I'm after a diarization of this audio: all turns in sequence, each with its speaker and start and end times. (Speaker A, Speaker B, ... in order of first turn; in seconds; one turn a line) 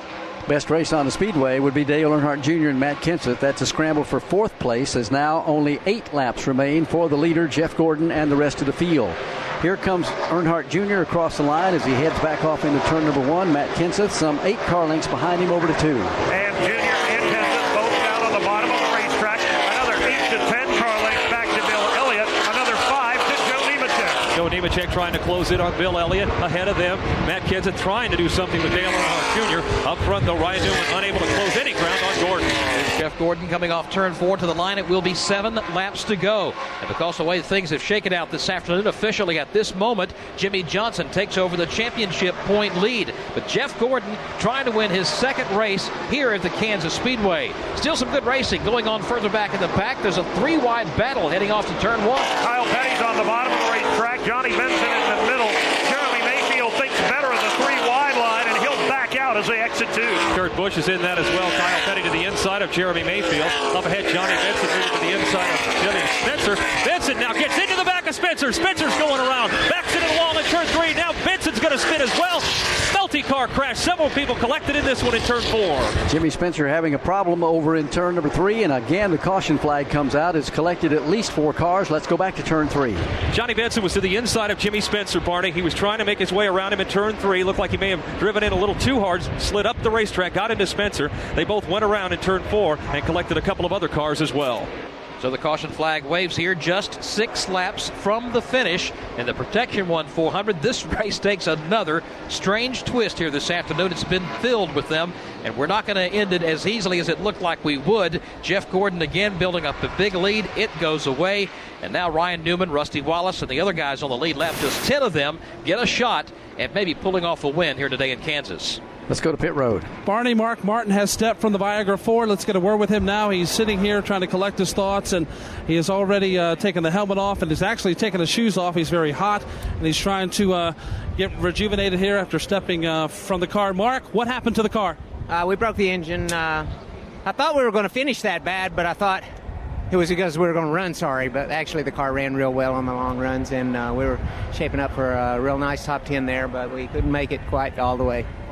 Speaker A: 0.5-16.1
Speaker B: 16.3-24.2
Speaker C: 24.3-32.6
Speaker D: 32.7-52.3
Speaker B: 52.4-60.2
Speaker C: 60.3-76.0
Speaker A: 76.1-83.0
Speaker C: 83.3-94.7
Speaker D: 95.2-118.8
Speaker A: 119.1-119.9
Speaker E: 120.0-135.0
Speaker F: 135.3-136.7
Speaker F: 137.2-139.2
Speaker F: 139.9-148.3